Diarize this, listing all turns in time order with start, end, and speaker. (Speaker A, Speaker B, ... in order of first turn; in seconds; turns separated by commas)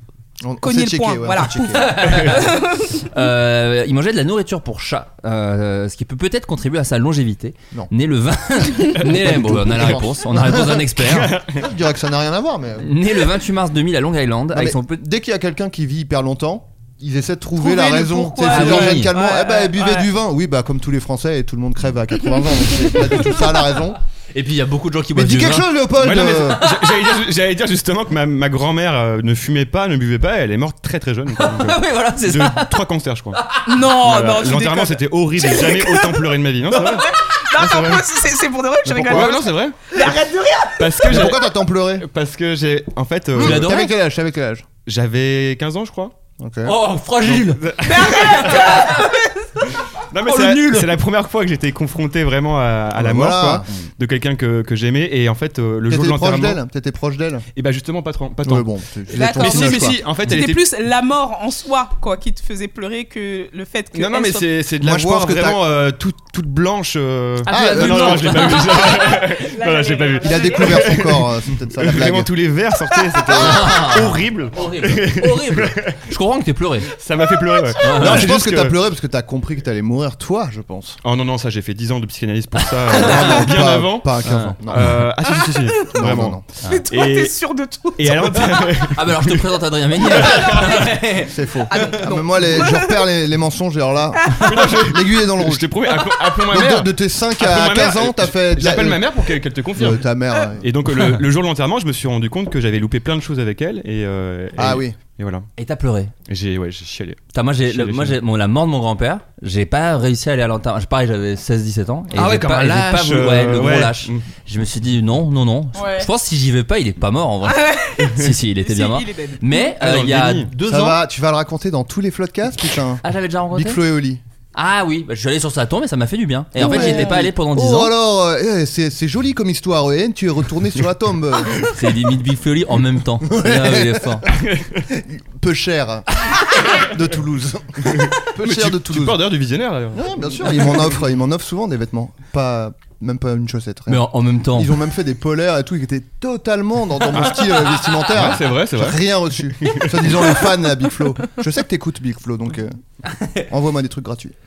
Speaker A: 0.4-2.2, Speaker B: 0.6-3.1, Speaker C: 1.8-2.5, Speaker C: 3.1-11.3, Speaker A: 9.0-12.9, Speaker D: 11.0-11.6, Speaker C: 12.8-15.0, Speaker A: 14.5-24.0, Speaker B: 17.6-20.1, Speaker C: 18.4-19.1, Speaker C: 24.3-25.8, Speaker A: 25.1-26.6, Speaker D: 26.0-37.9, Speaker C: 26.4-27.1, Speaker C: 31.3-32.9, Speaker B: 33.6-41.2, Speaker A: 37.6-38.0, Speaker A: 38.9-39.4, Speaker D: 39.0-39.8, Speaker D: 40.8-41.5, Speaker A: 41.0-42.1, Speaker D: 42.0-43.7, Speaker A: 43.4-44.7, Speaker C: 43.4-43.9, Speaker D: 44.9-46.1, Speaker A: 46.4-46.8, Speaker C: 46.6-47.6, Speaker D: 47.2-48.8, Speaker B: 47.9-49.5, Speaker D: 50.1-56.6, Speaker C: 50.2-51.0, Speaker A: 53.0-53.7, Speaker A: 55.9-57.5, Speaker D: 57.6-58.7, Speaker A: 58.4-60.0, Speaker B: 59.1-64.5, Speaker D: 59.2-60.6, Speaker D: 63.9-76.0, Speaker A: 64.8-65.6, Speaker A: 67.5-68.6, Speaker C: 67.5-68.9, Speaker B: 68.9-71.0, Speaker A: 70.2-72.3, Speaker B: 72.8-73.4, Speaker A: 73.2-74.1, Speaker C: 73.4-76.9, Speaker D: 77.0-78.8, Speaker B: 77.3-77.7, Speaker C: 77.8-78.3, Speaker A: 78.0-81.0, Speaker D: 81.0-87.3, Speaker C: 82.9-83.4, Speaker A: 82.9-85.1, Speaker C: 84.2-84.5, Speaker B: 85.4-85.8, Speaker A: 86.0-86.4, Speaker B: 86.7-88.7, Speaker D: 88.0-89.5, Speaker C: 88.9-91.9, Speaker D: 90.2-90.5, Speaker A: 91.3-95.8, Speaker B: 91.7-93.0, Speaker B: 94.2-94.9, Speaker D: 94.4-100.0, Speaker A: 96.5-99.0, Speaker A: 99.8-100.7, Speaker D: 100.6-105.5, Speaker A: 104.6-105.0, Speaker C: 105.6-106.1, Speaker D: 106.3-108.2, Speaker C: 107.3-121.0, Speaker D: 112.1-114.2, Speaker B: 115.7-116.1, Speaker B: 117.4-119.7, Speaker D: 119.8-120.5, Speaker A: 120.7-124.2, Speaker C: 123.0-123.8, Speaker C: 124.5-127.9, Speaker A: 126.6-131.7, Speaker B: 126.6-127.2, Speaker C: 131.7-134.3, Speaker A: 133.2-134.4, Speaker D: 134.3-134.8, Speaker A: 134.9-139.2, Speaker D: 137.9-140.9, Speaker A: 139.9-152.8, Speaker C: 143.9-144.8, Speaker D: 148.0-149.0, Speaker D: 149.6-150.3, Speaker C: 153.1-153.5, Speaker A: 153.5-154.3